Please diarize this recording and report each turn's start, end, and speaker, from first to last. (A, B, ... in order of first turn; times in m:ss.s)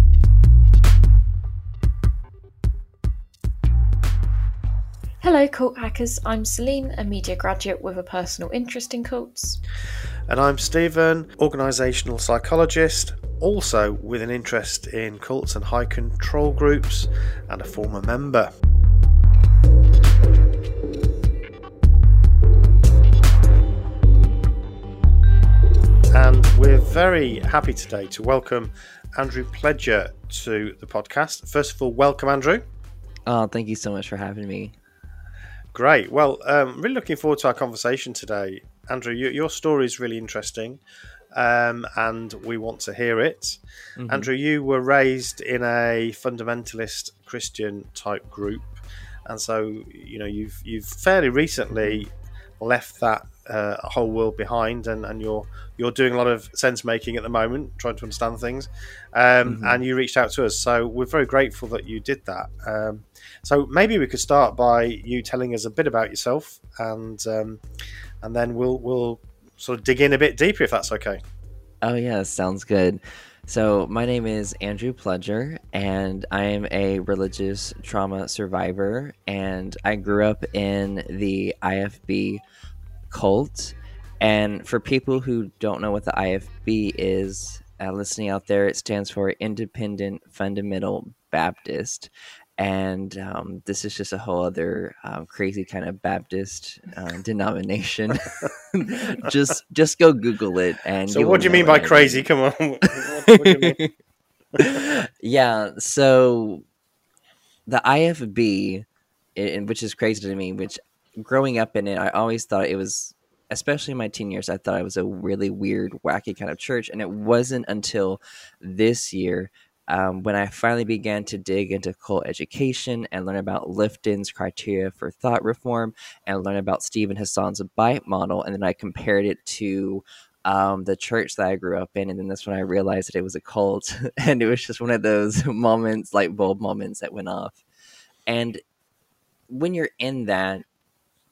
0:05.2-0:09.6 A
0:10.3-0:18.5 B
0:26.1-0:32.6 B
0:33.3-0:34.8 C
0:35.7-0:40.8 B
0:41.3-0:48.7 B
0:44.0-0:44.3 C
0:49.3-1:07.6 B
0:59.4-0:59.8 C
1:08.2-1:11.2 B
1:11.8-1:22.4 C
1:23.1-1:42.3 C
1:41.1-1:43.8 B
1:43.3-1:43.9 C
1:44.6-1:46.6 C
1:47.7-1:48.8 C
1:49.4-2:17.6 C
2:18.3-2:18.6 C
2:19.5-2:20.6 C